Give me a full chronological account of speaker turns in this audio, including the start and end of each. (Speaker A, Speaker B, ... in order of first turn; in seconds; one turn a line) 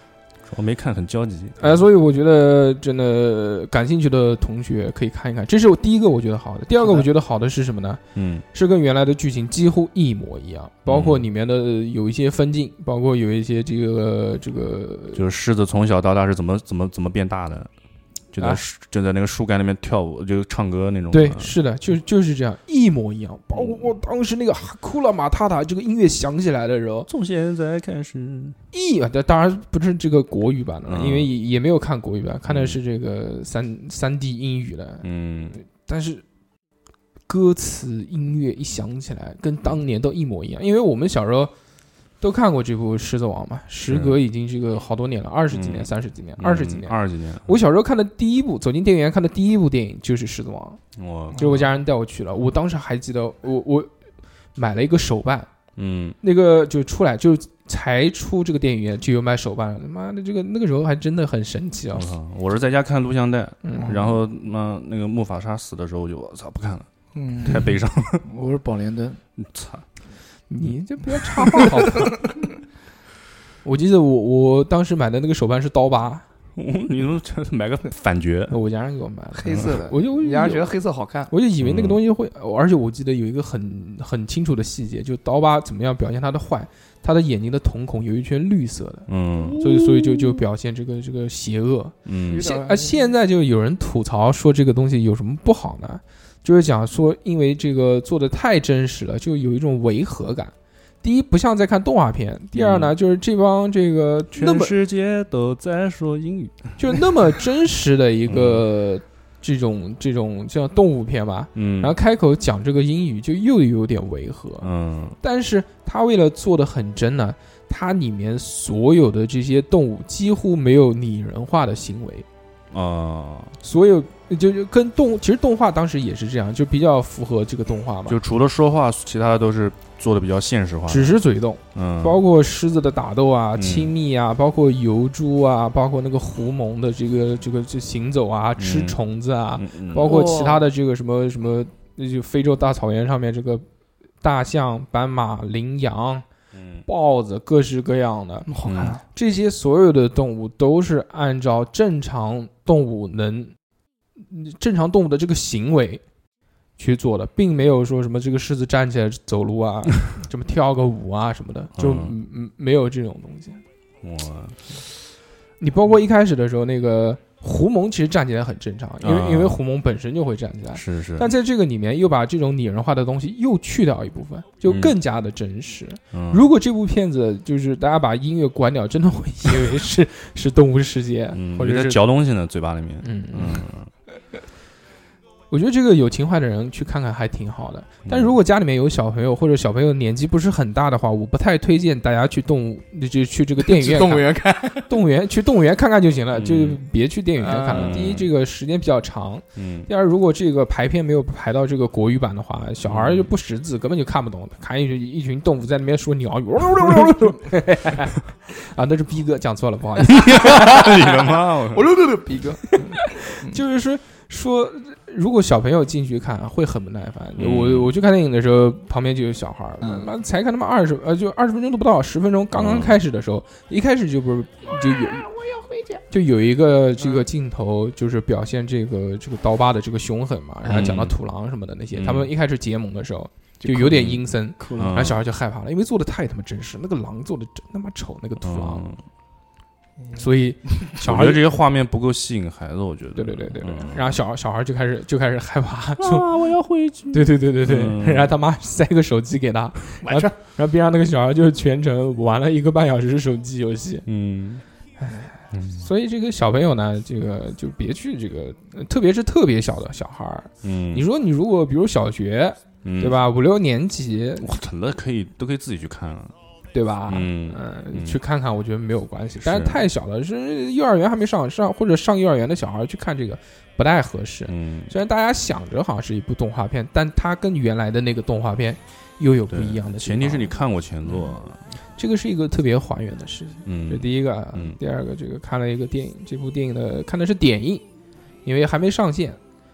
Speaker A: 0.4-1.8
Speaker B: 1.6-8.0
Speaker A: 8.1-8.4
Speaker B: 8.5-15.2
Speaker A: 10.9-11.2
Speaker A: 15.1-17.7
Speaker A: 18.3-21.5
Speaker B: 21.1-27.1
Speaker A: 23.5-23.9
Speaker A: 27.1-28.6
Speaker B: 28.7-36.2
Speaker A: 30.9-31.3
Speaker A: 32.5-32.8
Speaker A: 35.0-35.5
Speaker B: 37.3-41.5
Speaker B: 42.2-50.8
Speaker A: 43.9-44.2
Speaker A: 45.5-47.5
Speaker A: 51.0-51.6
Speaker B: 51.3-53.9
Speaker B: 54.5-55.5
Speaker A: 55.8-56.2
Speaker B: 56.2-62.1
Speaker A: 61.9-66.9
Speaker B: 63.6-64.1
Speaker C: 67.1-69.2
Speaker A: 67.4-68.3
Speaker A: 69.4-69.8
Speaker B: 70.5-72.3
Speaker B: 73.6-76.2
Speaker A: 76.5-78.6
Speaker B: 78.5-80.7
Speaker C: 79.3-81.3
Speaker B: 81.3-104.7
Speaker A: 81.6-82.0
Speaker A: 89.1-89.7
Speaker C: 89.4-90.3
Speaker A: 92.0-92.4
Speaker C: 92.3-93.0
Speaker A: 102.5-102.9
Speaker A: 104.3-107.0
Speaker B: 106.8-114.7
Speaker A: 108.3-108.6
Speaker A: 111.5-111.9
Speaker A: 114.6-115.2
Speaker B: 115.2-122.2
Speaker A: 122.7-123.5
Speaker B: 123.6-128.2
Speaker A: 128.1-131.2
Speaker B: 130.9-143.6
Speaker A: 131.7-132.2
Speaker A: 133.6-133.9
Speaker A: 138.6-139.0
Speaker A: 139.6-140.1
Speaker C: 140.0-140.7
Speaker B: 144.2-146.2
Speaker B: 146.8-148.5
Speaker C: 148.5-149.0
Speaker A: 148.6-149.0
Speaker B: 149.1-153.5
Speaker B: 154.3-156.0
Speaker B: 156.8-163.6
Speaker A: 161.8-162.1
Speaker A: 164.0-164.6
Speaker B: 165.6-182.0
Speaker A: 169.0-169.6
Speaker A: 170.7-171.3
Speaker A: 174.7-174.9
Speaker A: 176.1-176.4
Speaker A: 181.3-183.9
Speaker B: 183.0-183.7
Speaker B: 185.5-211.1
Speaker A: 188.1-188.3
Speaker C: 193.6-194.9
Speaker A: 196.3-196.8
Speaker C: 197.4-198.0
Speaker A: 197.7-198.3
Speaker A: 199.6-199.9
Speaker A: 202.8-203.3
Speaker A: 210.1-211.9
Speaker C: 210.6-213.6
Speaker B: 212.8-225.3
Speaker A: 217.4-217.9
Speaker C: 219.8-220.1
Speaker A: 222.5-223.0
Speaker C: 224.9-226.0
Speaker B: 226.1-238.9
Speaker C: 227.0-227.2
Speaker A: 230.6-231.2
Speaker A: 231.9-232.3
Speaker C: 233.6-235.1
Speaker A: 233.9-234.2
Speaker A: 234.7-235.2
Speaker A: 238.4-239.0
Speaker C: 240.0-240.8
Speaker B: 240.2-241.4
Speaker A: 241.0-244.2
Speaker B: 243.1-246.3
Speaker A: 246.0-248.3
Speaker B: 247.1-254.1
Speaker C: 250.0-250.3
Speaker A: 254.1-254.6
Speaker B: 255.0-264.5
Speaker A: 255.5-255.8
Speaker A: 260.6-261.0
Speaker A: 262.8-263.2
Speaker A: 264.4-266.3
Speaker B: 266.7-280.5
Speaker A: 267.1-268.2
Speaker A: 269.4-269.8
Speaker A: 274.5-274.9
Speaker A: 279.5-281.6
Speaker B: 281.9-287.8
Speaker A: 283.6-284.8
Speaker B: 288.4-289.4